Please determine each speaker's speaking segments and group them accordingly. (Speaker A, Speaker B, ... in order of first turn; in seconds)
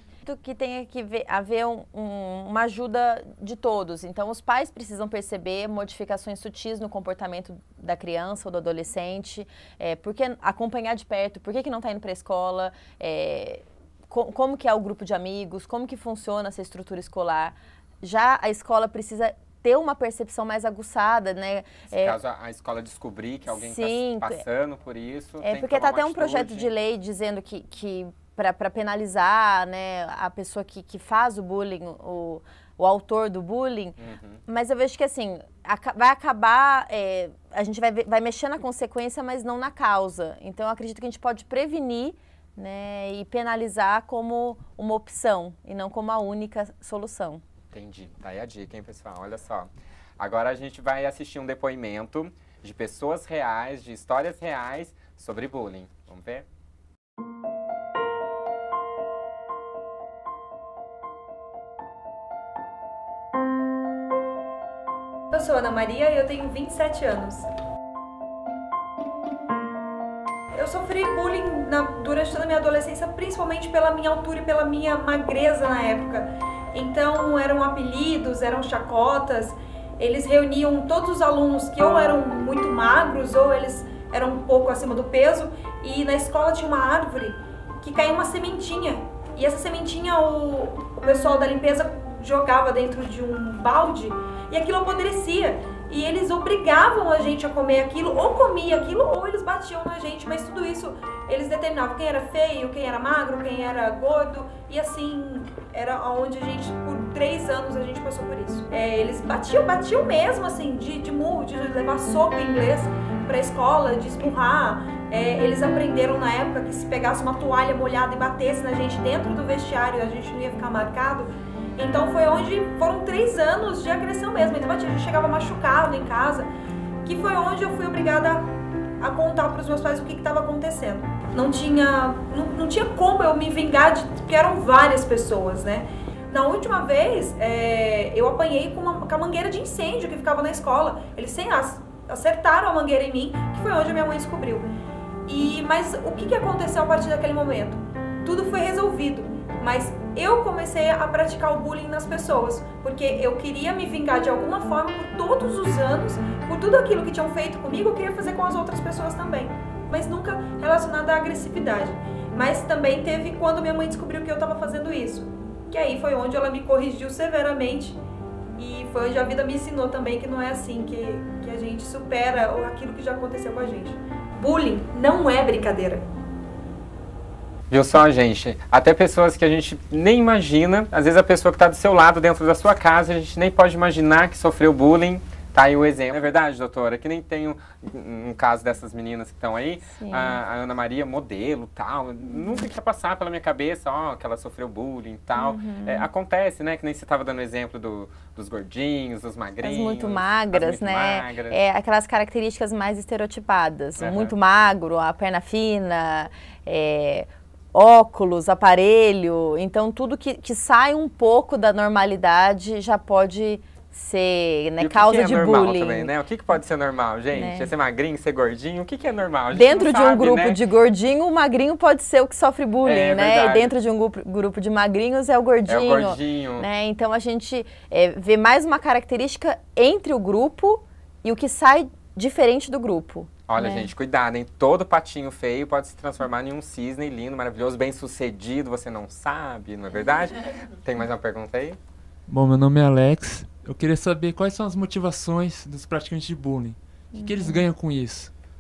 Speaker A: 0.2-22.2, 23.5-24.4, 25.4-34.0, 34.5-47.4, 189.9-190.4, 192.3-192.7, 195.3-196.1, 199.6-216.1, 217.3-217.7, 219.5-233.9, 247.1-247.7
Speaker B: 21.9-26.7, 34.0-34.4, 47.7-56.5, 177.7-201.6, 204.0-204.3, 214.8-220.6, 222.8-223.8, 225.7-226.7, 233.5-241.8
Speaker C: 65.3-67.5, 70.5-126.5, 127.0-144.7, 145.3-168.0, 168.6-176.1
Speaker D: 242.3-248.3